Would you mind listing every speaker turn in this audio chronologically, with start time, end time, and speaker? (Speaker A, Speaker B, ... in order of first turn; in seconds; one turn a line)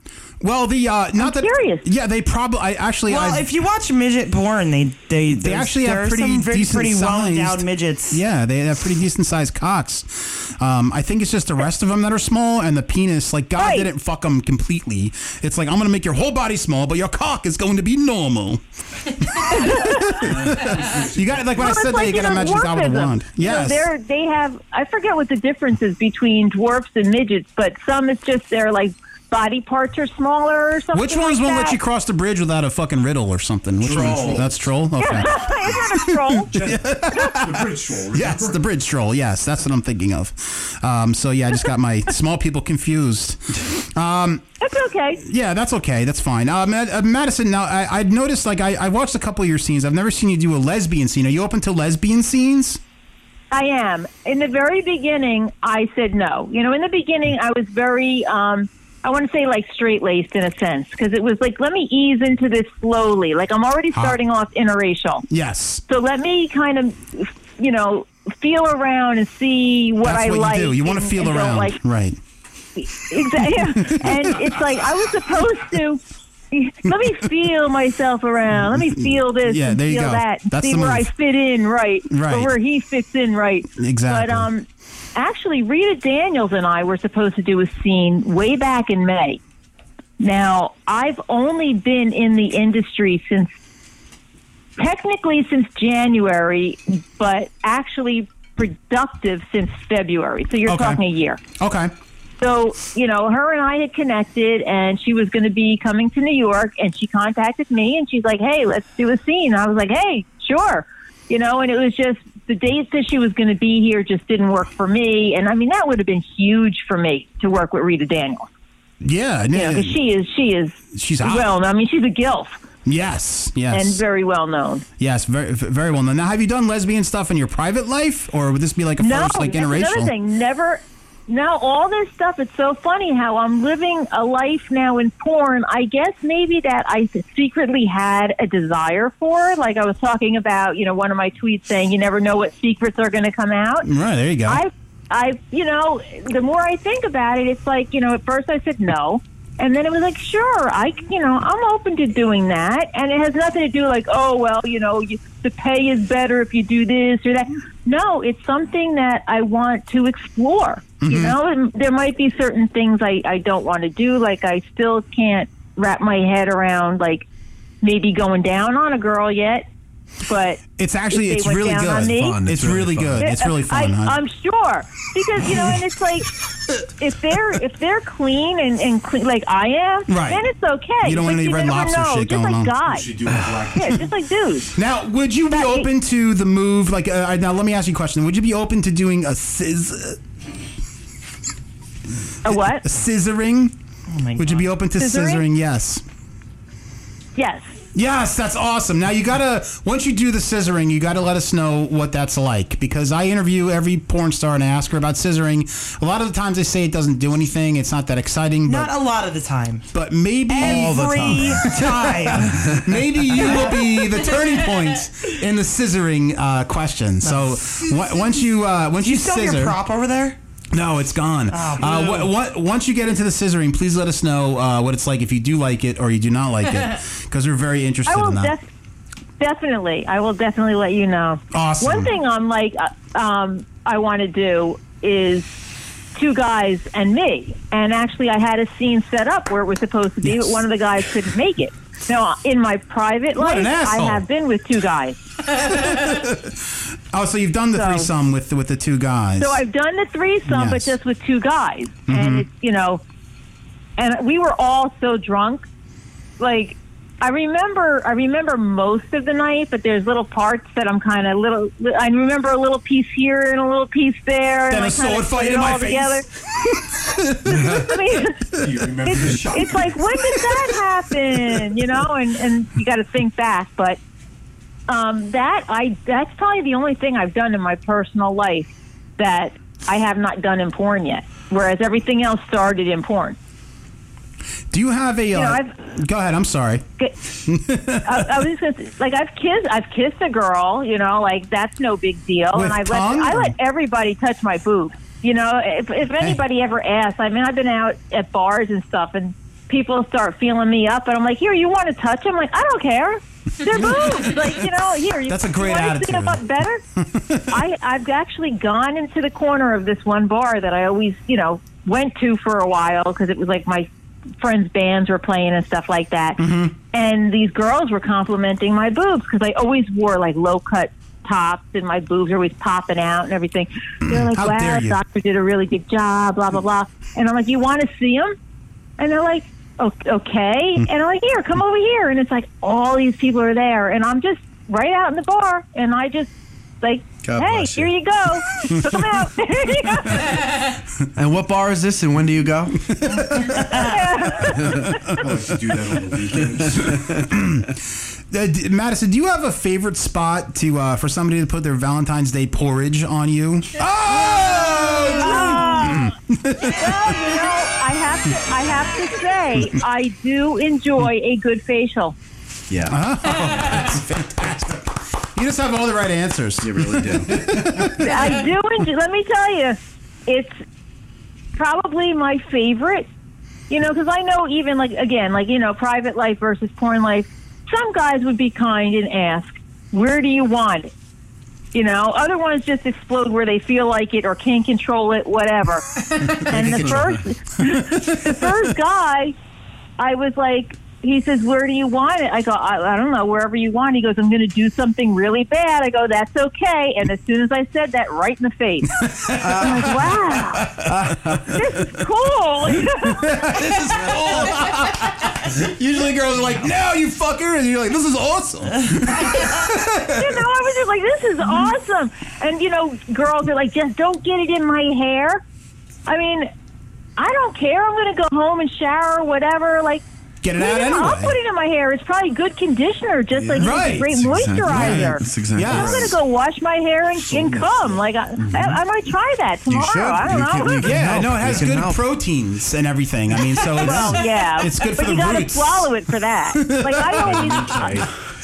Speaker A: 0.4-3.5
Speaker B: 1.2-1.9
Speaker C: 3.1-8.2
Speaker A: 5.3-23.9
Speaker B: 13.6-13.9
Speaker B: 19.5-20.3
Speaker D: 20.4-21.5
Speaker B: 21.6-31.8
Speaker A: 30.9-44.4
Speaker D: 33.8-34.5
Speaker E: 33.9-34.4
Speaker B: 35.0-36.5
Speaker D: 36.5-38.6
Speaker B: 44.6-45.2
Speaker A: 45.2-52.8
Speaker B: 53.5-65.2
Speaker A: 63.9-64.2
Speaker A: 65.3-65.8
Speaker B: 65.9-71.8
Speaker A: 70.0-72.2
Speaker B: 72.8-76.0
Speaker A: 73.8-74.3
Speaker B: 76.5-89.4
Speaker A: 78.7-81.1
Speaker A: 82.1-82.5
Speaker A: 83.8-84.5
Speaker B: 90.2-93.5
Speaker B: 94.8-101.4
Speaker A: 100.7-101.0
Speaker A: 101.6-101.9
Speaker B: 102.4-118.5
Speaker A: 119.0-120.0
Speaker B: 119.5-122.6
Speaker A: 120.9-121.5
Speaker A: 122.8-124.0
Speaker B: 123.7-124.8
Speaker A: 125.0-130.1
Speaker B: 129.0-143.9
Speaker A: 143.8-144.6
Speaker B: 144.4-167.2
Speaker A: 161.0-161.3
Speaker B: 167.8-169.7
Speaker B: 170.2-172.4
Speaker A: 170.8-174.2
Speaker E: 172.2-173.2
Speaker B: 173.2-176.3
Speaker B: 177.0-183.1
Speaker A: 180.1-180.4
Speaker A: 181.0-182.7
Speaker D: 182.8-184.1
Speaker B: 183.7-184.7
Speaker A: 184.7-190.2
Speaker B: 185.5-185.9
Speaker B: 192.4-192.8
Speaker A: 192.4-193.7
Speaker C: 194.1-194.7
Speaker A: 194.3-196.0
Speaker B: 195.0-195.4
Speaker B: 197.4-197.7
Speaker A: 197.9-208.9
Speaker C: 208.7-209.9
Speaker A: 209.9-219.8
Speaker C: 210.5-212.8
Speaker E: 210.6-211.6
Speaker C: 213.3-214.1
Speaker C: 217.3-217.5
Speaker C: 219.0-220.4
Speaker A: 220.7-228.5
Speaker C: 221.5-222.3
Speaker B: 228.1-228.7
Speaker B: 229.4-235.5
Speaker A: 231.5-232.1
Speaker B: 236.1-245.2
Speaker A: 240.2-240.5
Speaker A: 243.3-244.2
Speaker A: 245.6-249.6
Speaker B: 247.7-248.1
Speaker B: 249.4-253.0
Speaker A: 250.5-251.0
Speaker A: 252.1-252.4
Speaker B: 254.0-255.7
Speaker B: 256.4-266.2
Speaker A: 264.7-268.0
Speaker B: 267.5-268.5
Speaker D: 268.6-270.0
Speaker B: 269.0-274.0
Speaker B: 274.9-283.4
Speaker A: 284.7-286.8
Speaker B: 285.3-285.7
Speaker A: 287.4-288.4
Speaker B: 288.0-306.8
Speaker A: 292.5-293.5
Speaker A: 305.3-306.4
Speaker A: 306.9-307.6
Speaker B: 307.5-313.9
Speaker B: 314.4-328.4
Speaker A: 316.4-316.7
Speaker A: 324.1-325.0
Speaker B: 329.0-336.3
Speaker B: 336.8-340.4
Speaker E: 337.2-337.9
Speaker A: 338.7-339.0
Speaker E: 341.1-343.0
Speaker A: 343.0-343.7
Speaker B: 343.5-345.1
Speaker D: 345.1-346.9
Speaker A: 346.8-357.2
Speaker B: 355.1-362.1
Speaker E: 362.7-362.9
Speaker A: 362.9-368.3
Speaker E: 366.6-367.4
Speaker B: 368.0-370.6
Speaker B: 371.6-373.1
Speaker B: 373.7-380.9
Speaker B: 381.7-389.3
Speaker A: 386.3-388.3
Speaker B: 390.0-400.7
Speaker A: 399.0-399.9
Speaker E: 399.4-400.0
Speaker A: 400.6-401.5
Speaker E: 400.8-401.6
Speaker B: 401.5-403.6
Speaker A: 402.8-410.4
Speaker B: 409.3-415.4
Speaker B: 416.1-416.5
Speaker B: 417.2-420.0
Speaker A: 420.4-421.3
Speaker B: 420.5-431.1
Speaker E: 423.3-426.2
Speaker A: 423.6-426.1
Speaker D: 427.2-428.0
Speaker E: 428.4-428.8
Speaker E: 429.7-432.0
Speaker A: 430.8-437.9
Speaker B: 433.8-437.9
Speaker D: 437.2-438.1